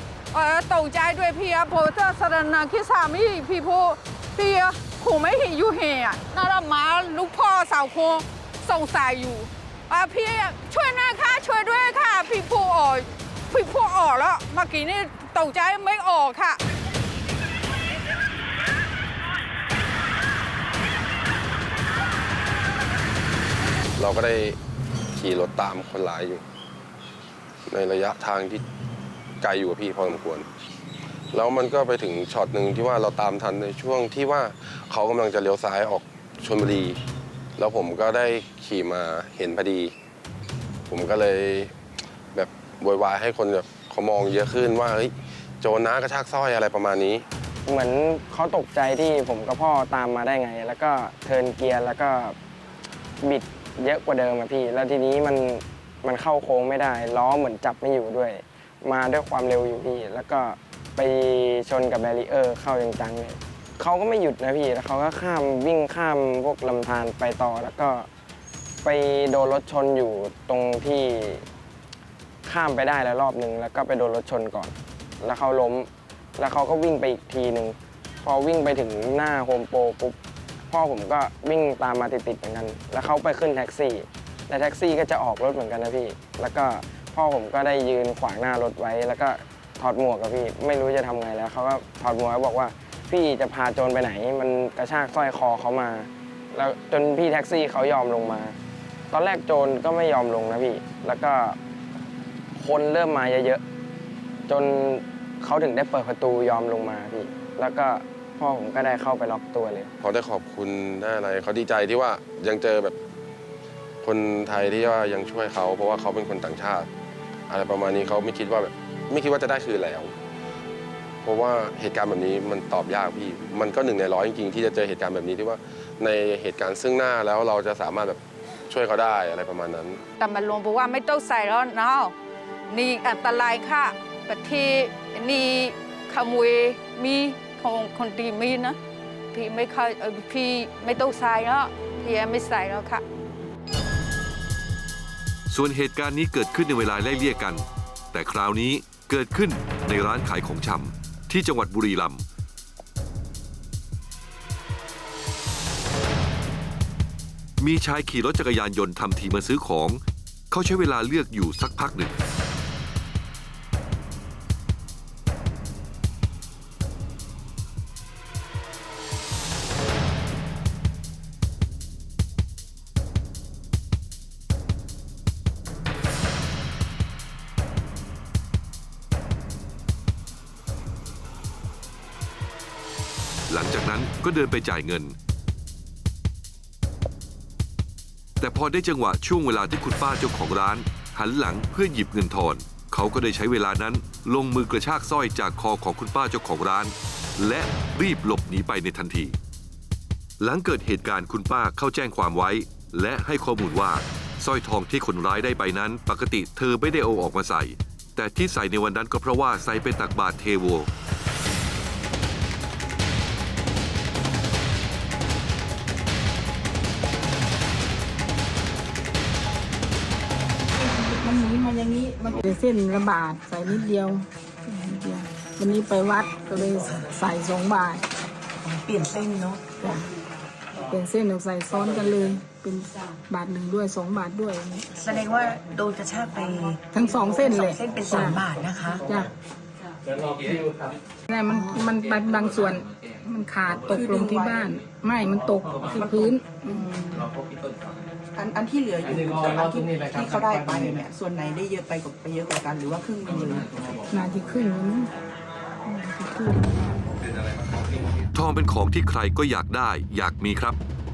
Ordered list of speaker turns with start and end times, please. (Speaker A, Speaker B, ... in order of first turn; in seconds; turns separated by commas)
Speaker A: 0.3-16.6, Speaker B: 24.0-24.6, Speaker B: 25.1-26.4, Speaker B: 27.7-28.6, Speaker B: 29.4-30.5, Speaker B: 31.3-37.0, Speaker B: 37.6-39.9, Speaker B: 40.9-41.7, Speaker B: 42.3-47.2, Speaker C: 47.7-52.4, Speaker C: 53.2-68.1, Speaker C: 68.8-71.5, Speaker C: 72.5-80.2, Speaker C: 80.7-98.6, Speaker C: 99.1-101.6, Speaker C: 102.5-103.6, Speaker C: 104.5-109.9, Speaker B: 110.0-113.0, Speaker B: 114.0-116.9, Speaker B: 117.5-120.1, Speaker B: 121.2-130.0, Speaker A: 130.2-132.1, Speaker A: 132.7-138.8, Speaker A: 139.3-143.0, Speaker D: 145.5-152.2, Speaker D: 157.6-162.1, Speaker D: 183.5-185.2, Speaker D: 188.4-199.4, Speaker D: 200.4-210.9, Speaker E: 220.8-228.1, Speaker F: 226.8-227.1, Speaker F: 228.6-229.8, Speaker E: 229.8-230.1, Speaker E: 230.9-234.9, Speaker F: 234.9-239.1, Speaker E: 236.9-238.4, Speaker E: 239.1-239.3, Speaker E: 241.3-246.8, Speaker F: 241.5-241.8, Speaker G: 243.8-244.7, Speaker G: 245.8-247.3, Speaker G: 248.3-253.9, Speaker E: 254.1-255.1, Speaker E: 255.8-256.9, Speaker D: 258.3-260.8